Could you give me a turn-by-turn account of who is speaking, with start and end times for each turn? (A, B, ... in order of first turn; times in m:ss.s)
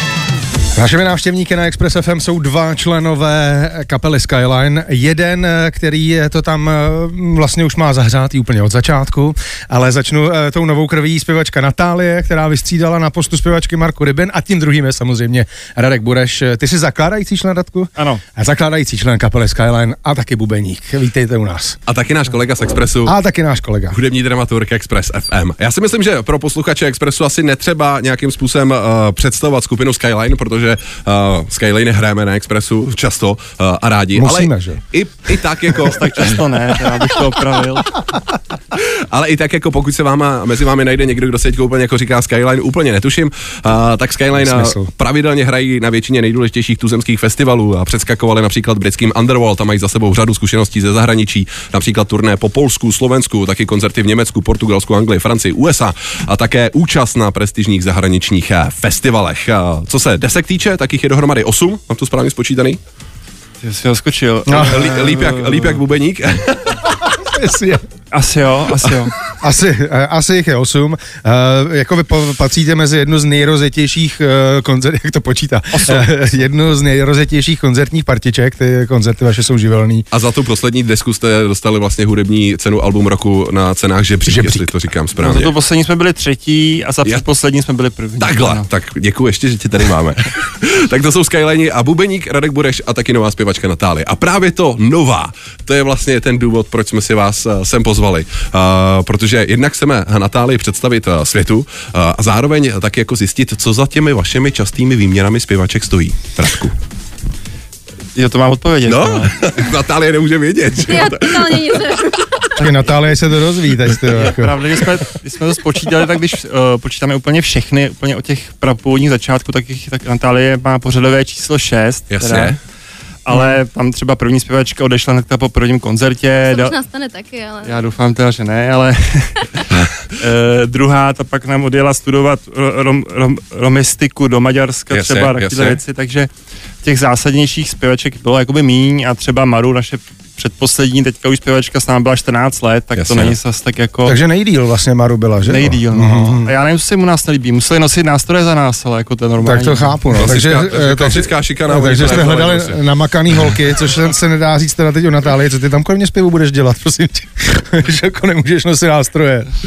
0:00.8-0:21.8 A
0:18.0-0:18.2 B
0:21.9-0:23.2 C
0:23.0-0:24.0 A
0:23.9-0:36.4 C
0:34.2-0:34.8 A
0:35.8-0:38.0 B
0:38.7-1:02.8 C
0:44.4-0:44.9 A
1:03.6-1:05.8 B
1:04.5-1:04.8 A
1:04.5-1:06.9 C
1:07.0-1:07.8 A
1:08.1-1:09.2 B
1:09.3-1:20.1 A
1:15.7-1:16.1 B
1:20.1-1:25.5 C
1:24.3-1:24.7 A
1:25.2-1:28.7 B
1:28.2-1:46.8 C
1:48.2-1:49.7 B
1:48.9-1:52.0 C
1:50.8-1:52.5 D
1:52.6-1:54.6 A
1:54.1-2:02.6 B
2:02.1-2:02.6 C
2:03.2-2:06.7 B
2:03.3-2:03.6 A
2:06.5-2:07.8 D
2:07.6-2:16.3 B
2:14.9-2:15.8 C
2:16.8-2:24.2 B
2:23.0-2:23.4 C
2:24.1-2:26.5 A
2:25.4-2:30.0 B
2:29.4-2:39.5 A
2:30.2-2:32.8 C